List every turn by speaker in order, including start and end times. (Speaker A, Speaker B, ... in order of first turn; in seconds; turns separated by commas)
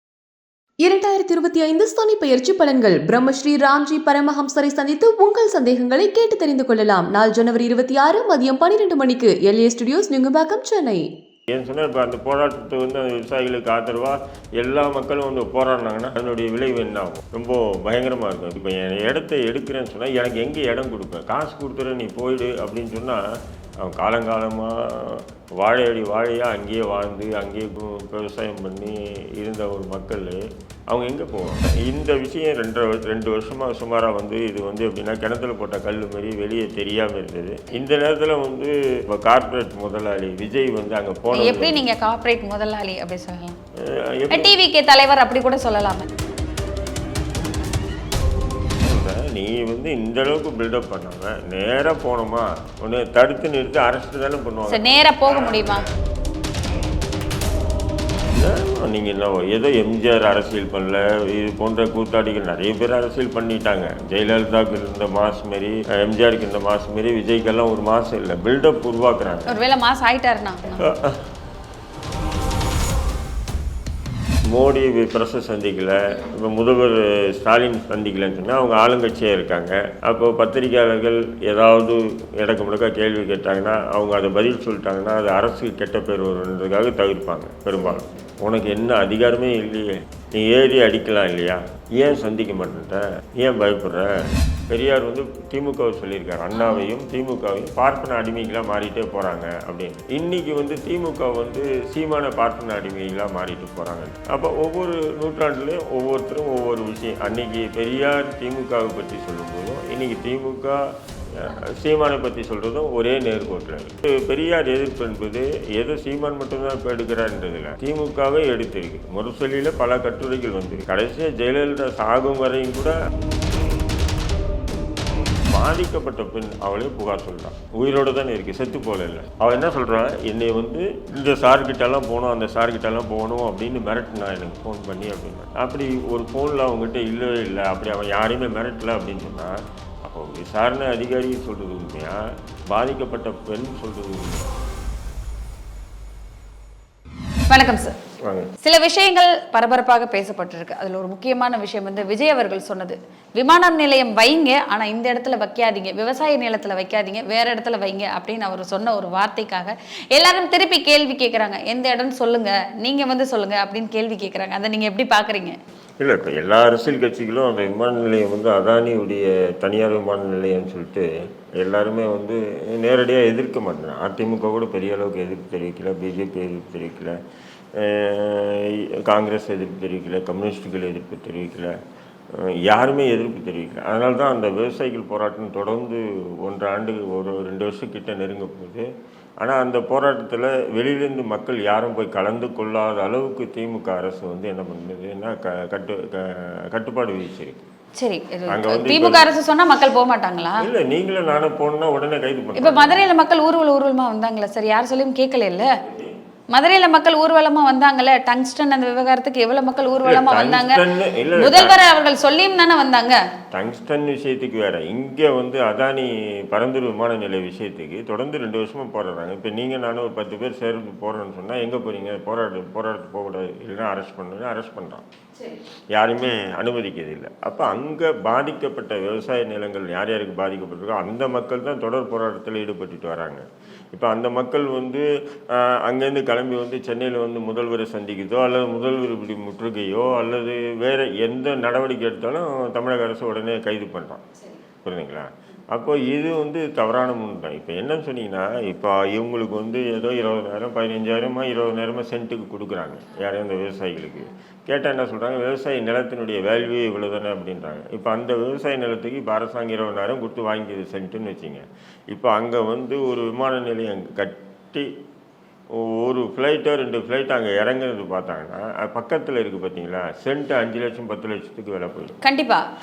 Speaker A: 0.8-11.0, Speaker B: 11.5-23.2, Speaker B: 23.8-41.8, Speaker C: 41.3-43.6, Speaker B: 43.8-44.5, Speaker C: 44.3-46.1, Speaker B: 48.8-55.9, Speaker C: 54.7-55.8, Speaker B: 58.3-69.6, Speaker C: 69.5-70.9, Speaker B: 70.8-71.3, Speaker B: 74.5-123.0, Speaker C: 96.6-96.8, Speaker B: 125.5-144.5, Speaker C: 147.5-147.9, Speaker B: 148.2-148.5, Speaker C: 148.6-165.6, Speaker B: 166.0-177.2, Speaker B: 177.7-181.8, Speaker B: 182.3-197.7, Speaker C: 198.0-200.7, Speaker B: 198.5-199.3, Speaker B: 200.6-203.1, Speaker C: 202.6-205.7, Speaker B: 205.9-206.1, Speaker C: 206.5-210.8, Speaker B: 210.0-211.7, Speaker C: 211.3-213.2, Speaker B: 213.5-225.1, Speaker C: 225.3-225.6, Speaker B: 225.9-244.2, Speaker B: 244.8-264.9, Speaker B: 265.7-272.2, Speaker C: 272.2-272.6